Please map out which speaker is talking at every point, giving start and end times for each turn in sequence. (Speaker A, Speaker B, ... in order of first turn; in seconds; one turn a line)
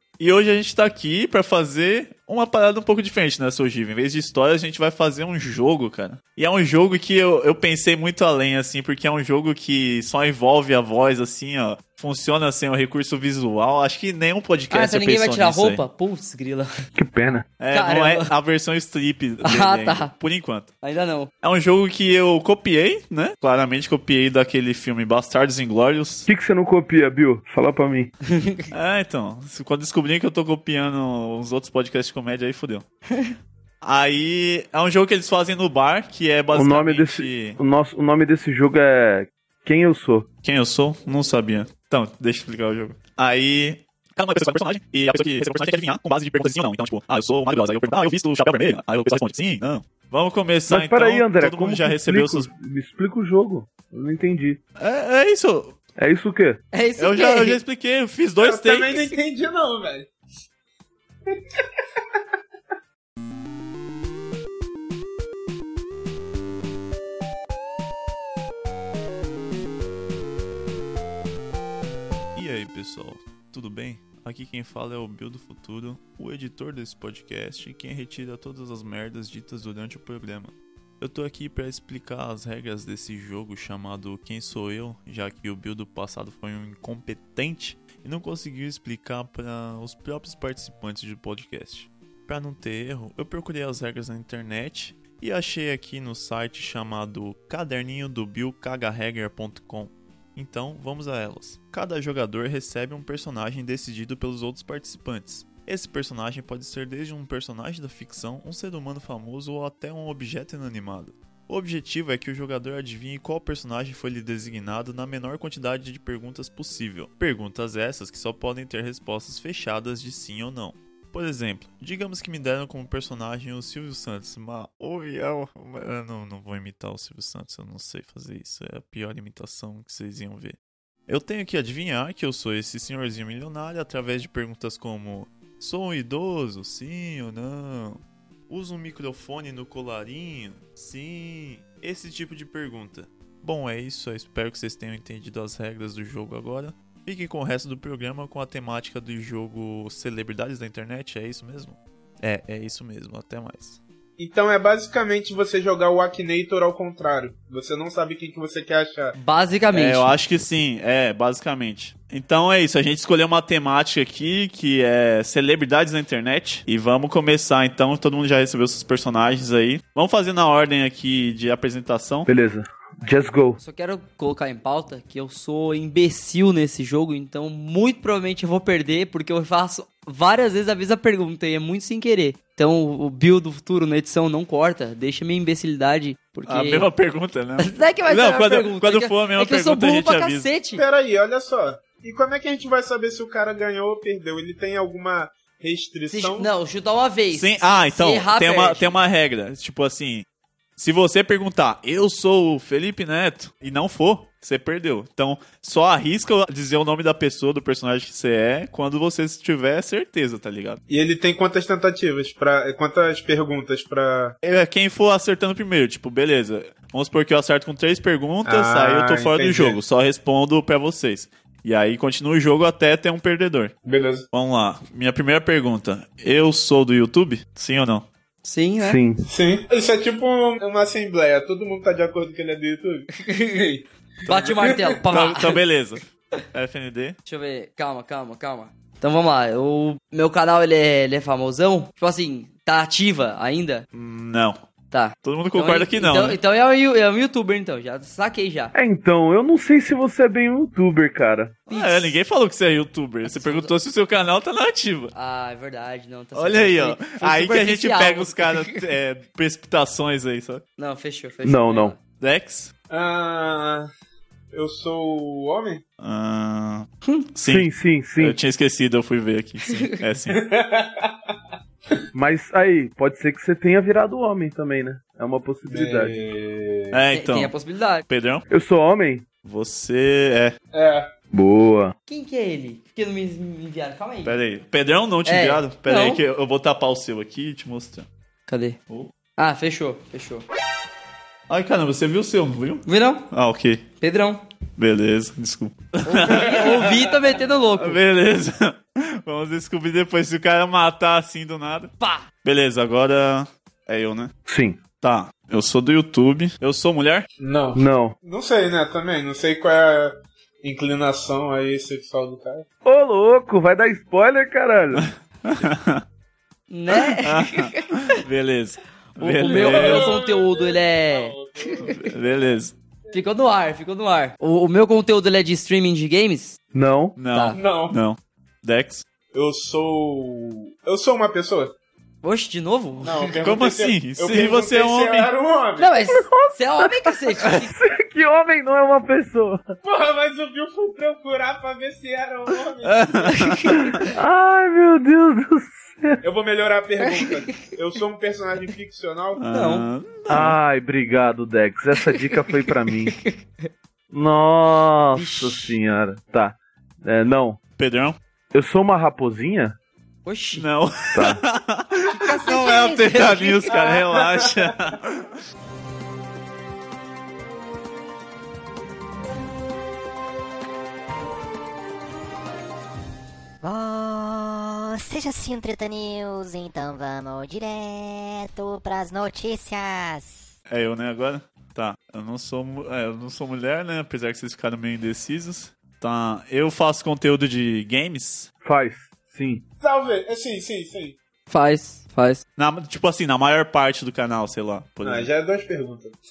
Speaker A: 0.2-15.8
Speaker B: 14.7-16.7
Speaker C: 16.9-17.5
Speaker A: 17.6-20.7
Speaker B: 17.7-18.3
Speaker B: 19.4-20.1
Speaker B: 20.8-21.3
Speaker A: 21.4-26.3
Speaker C: 26.3-28.1
Speaker A: 28.7-32.9
Speaker A: 33.8-37.6
Speaker C: 36.5-40.3
Speaker A: 40.4-52.5
Speaker C: 50.7-54.6
Speaker A: 54.8-55.8
Speaker C: 56.0-56.6
Speaker B: 56.7-57.6
Speaker A: 57.0-59.1
Speaker D: 58.4-60.1
Speaker A: 72.3-153.8
Speaker D: 154.2-159.2
Speaker B: 159.2-160.1
Speaker A: 159.7-172.3
Speaker C: 172.3-173.6
Speaker B: 173.6-186.9
Speaker A: 186.5-190.5
Speaker B: 187.6-190.8
Speaker D: 190.8-196.5
Speaker B: 196.1-198.9
Speaker A: 197.3-200.2
Speaker A: 200.8-210.8
Speaker D: 210.9-214.3
Speaker A: 214.4-223.7
Speaker D: 218.5-219.8
Speaker D: 223.8-224.3
Speaker A: 224.3-228.1
Speaker B: 228.4-229.0
Speaker C: 228.8-229.2
Speaker D: 229.3-233.2
Speaker B: 233.3-233.6
Speaker B: 234.3-235.6
Speaker D: 234.3-235.0
Speaker A: 235.1-237.2
Speaker B: 237.3-243.9
Speaker A: 243.9-244.6
Speaker B: 244.9-248.7
Speaker A: 245.2-246.4
Speaker C: 248.7-251.6
Speaker B: 251.7-252.1
Speaker A: 251.7-255.1
Speaker B: 253.3-253.7
Speaker B: 255.1-258.8
Speaker A: 256.4-260.6
Speaker B: 260.8-262.0
Speaker C: 261.4-261.9
Speaker A: 262.2-262.7
Speaker D: 262.9-263.9
Speaker D: 264.5-265.8
Speaker A: 266.0-267.7
Speaker C: 267.4-268.4
Speaker A: 268.2-270.4
Speaker D: 270.3-271.2
Speaker C: 272.1-276.1
Speaker D: 275.7-277.0
Speaker A: 276.9-277.5
Speaker B: 277.1-278.1
Speaker A: 278.1-278.4
Speaker C: 278.5-279.3
Speaker A: 279.4-280.6
Speaker D: 280.7-281.1
Speaker C: 281.3-281.9
Speaker B: 282.1-284.4
Speaker A: 284.2-288.1
Speaker B: 285.2-286.2
Speaker B: 288.5-288.8
Speaker B: 289.4-290.5
Speaker A: 291.5-293.9
Speaker B: 292.9-293.2
Speaker B: 294.0-294.4
Speaker A: 294.8-296.7
Speaker B: 296.1-298.0
Speaker D: 296.4-297.0
Speaker A: 297.8-301.9
Speaker A: 302.4-304.3
Speaker C: 304.5-304.8
Speaker A: 305.0-307.3
Speaker D: 307.4-312.7
Speaker C: 307.8-308.1
Speaker C: 312.8-315.1
Speaker A: 314.9-316.0
Speaker B: 316.7-317.8
Speaker A: 317.0-320.1
Speaker B: 319.2-321.9
Speaker D: 319.4-322.1
Speaker A: 322.0-322.7
Speaker B: 323.1-326.6
Speaker C: 326.7-327.2
Speaker A: 327.2-329.0
Speaker B: 327.3-327.6
Speaker D: 327.5-328.0
Speaker D: 329.3-331.7
Speaker B: 332.2-333.4
Speaker D: 333.0-336.0
Speaker A: 333.4-335.3
Speaker B: 335.8-337.7
Speaker C: 336.3-339.6
Speaker D: 339.8-343.4
Speaker A: 342.8-343.8
Speaker B: 343.3-343.9
Speaker C: 344.1-346.2
Speaker D: 346.2-349.4
Speaker A: 349.4-350.6
Speaker B: 349.5-349.9
Speaker C: 350.3-353.2
Speaker B: 352.9-353.7
Speaker C: 354.1-357.6
Speaker B: 355.1-355.7
Speaker A: 357.8-358.2
Speaker C: 358.5-359.8
Speaker B: 360.2-360.6
Speaker A: 360.6-365.3
Speaker C: 361.1-361.4
Speaker B: 362.1-363.8
Speaker D: 363.7-364.7
Speaker E: 373.6-380.5
Speaker A: 380.7-388.5
Speaker C: 388.6-389.6
Speaker D: 389.8-391.2
Speaker B: 391.5-392.4
Speaker A: 392.6-395.3
Speaker D: 395.0-396.2